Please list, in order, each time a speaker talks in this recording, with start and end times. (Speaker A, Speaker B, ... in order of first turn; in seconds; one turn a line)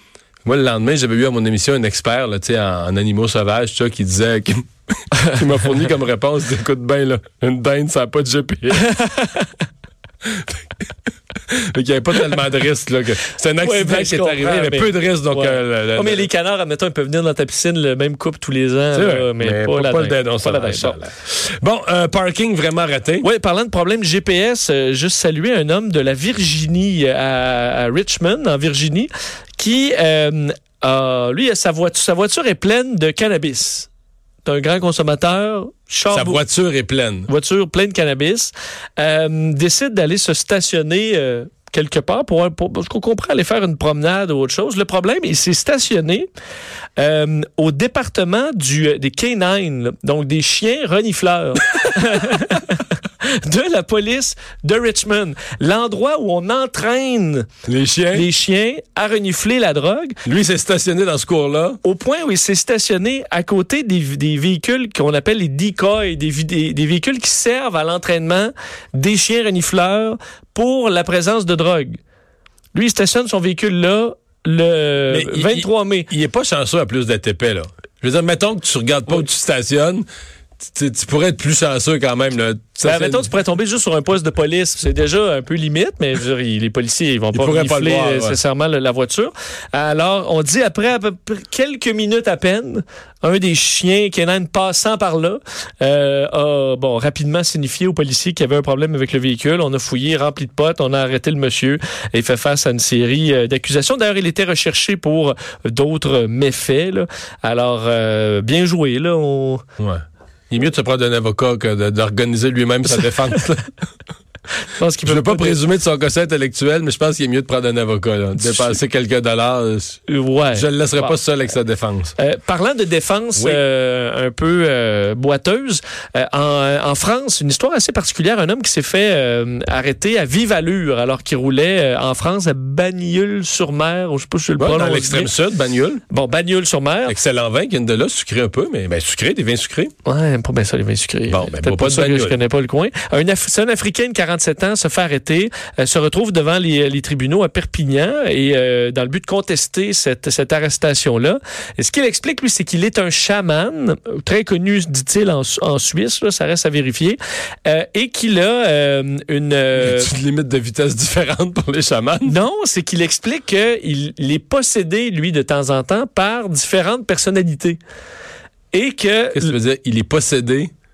Speaker A: 0.4-8.9
Speaker B: 8.8-9.5
Speaker A: 10.2-16.3
Speaker B: 13.6-21.0
Speaker A: 18.9-23.3
Speaker B: 23.2-33.9
Speaker B: 34.4-36.4
Speaker A: 36.1-37.3
Speaker B: 37.2-46.3
Speaker B: 47.0-57.5
Speaker A: 57.7-58.3
Speaker B: 58.1-60.2
Speaker A: 60.2-61.8
Speaker B: 61.8-72.0
Speaker B: 72.7-76.1
Speaker A: 75.1-80.0
Speaker A: 80.6-83.3
Speaker B: 82.8-109.6
Speaker A: 87.3-88.4
Speaker A: 109.8-113.7
Speaker B: 114.7-115.6
Speaker A: 115.0-120.0
Speaker B: 118.4-118.8
Speaker B: 120.1-121.2
Speaker A: 120.5-122.1
Speaker B: 122.2-135.3
Speaker A: 123.3-123.6
Speaker A: 134.6-136.0
Speaker B: 136.1-137.1
Speaker A: 137.1-139.9
Speaker B: 140.0-160.1
Speaker A: 141.3-142.3
Speaker A: 159.8-162.3
Speaker B: 162.2-167.8
Speaker B: 168.7-169.5
Speaker A: 169.3-170.7